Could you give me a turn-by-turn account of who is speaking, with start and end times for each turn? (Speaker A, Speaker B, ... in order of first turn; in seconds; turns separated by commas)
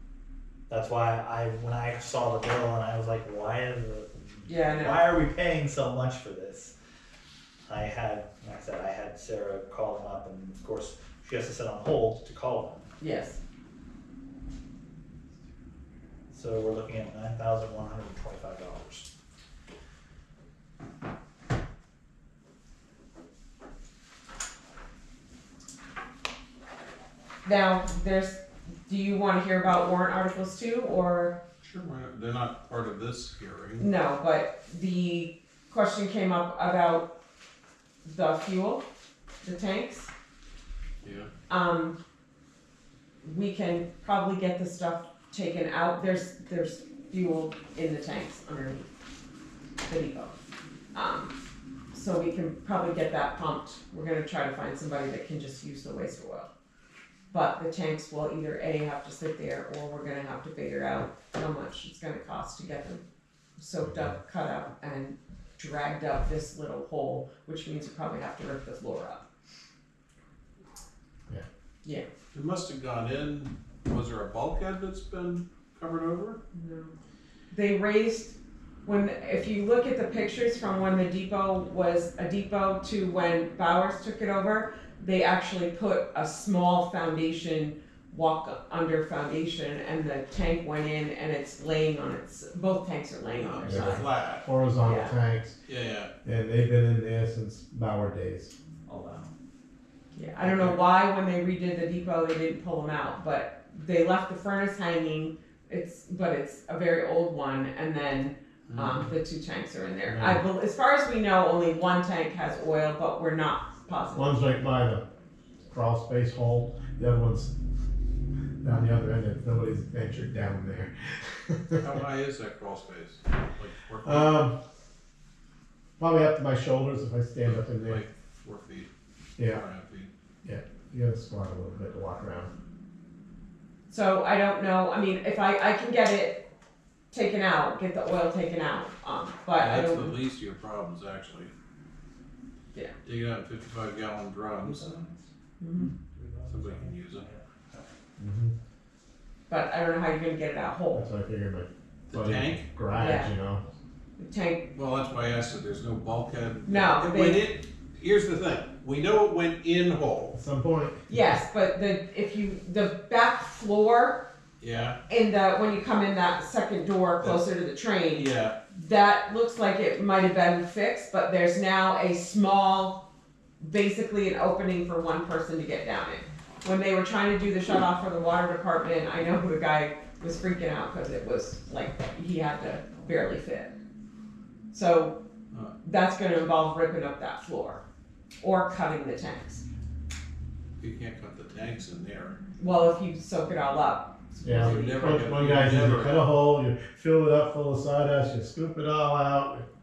Speaker A: 0.7-6.7, Speaker B: 4.5-5.1, Speaker A: 7.6-12.9, Speaker B: 13.0-13.4, Speaker A: 16.3-19.1, Speaker B: 27.4-31.4, Speaker C: 31.6-33.9, Speaker B: 33.8-37.1, Speaker B: 38.0-38.8, Speaker B: 39.4-40.1, Speaker C: 41.0-41.3, Speaker B: 41.5-42.0, Speaker B: 43.2-48.9, Speaker B: 49.9-50.3, Speaker B: 50.9-51.3, Speaker B: 51.9-56.5, Speaker B: 57.3-63.0, Speaker B: 63.6-69.2, Speaker D: 63.8-64.1, Speaker C: 72.3-76.4, Speaker B: 76.5-76.9, Speaker B: 77.5-94.1, Speaker C: 93.3-94.5, Speaker D: 93.6-95.6, Speaker B: 94.8-95.2, Speaker C: 95.6-96.1, Speaker D: 96.2-98.5, Speaker A: 98.8-99.3, Speaker B: 100.1-114.3, Speaker C: 100.4-100.8, Speaker C: 108.7-109.1, Speaker D: 110.1-110.4, Speaker D: 114.1-115.0, Speaker D: 115.7-117.5, Speaker D: 118.6-121.9, Speaker C: 121.8-124.3, Speaker D: 124.0-124.6, Speaker D: 126.0-128.0, Speaker C: 127.4-128.9, Speaker C: 129.4-130.1, Speaker D: 130.4-132.5, Speaker B: 133.9-136.4, Speaker B: 137.1-140.1, Speaker C: 139.6-141.5, Speaker C: 143.0-144.9, Speaker A: 144.6-147.9, Speaker B: 145.6-145.9, Speaker C: 146.5-147.2, Speaker D: 148.2-148.5, Speaker B: 149.5-151.1, Speaker D: 150.9-153.6, Speaker C: 152.1-152.6, Speaker B: 152.9-153.3, Speaker B: 154.2-154.6, Speaker C: 154.7-160.3, Speaker B: 156.7-157.4, Speaker D: 160.3-161.2, Speaker B: 161.1-164.2, Speaker C: 164.6-165.0, Speaker B: 165.1-173.0, Speaker C: 168.1-168.5, Speaker B: 173.6-183.7, Speaker B: 184.7-185.2, Speaker B: 185.8-187.8, Speaker B: 188.4-189.6, Speaker C: 190.8-192.4, Speaker B: 192.6-195.4, Speaker D: 194.4-199.7, Speaker C: 194.5-196.3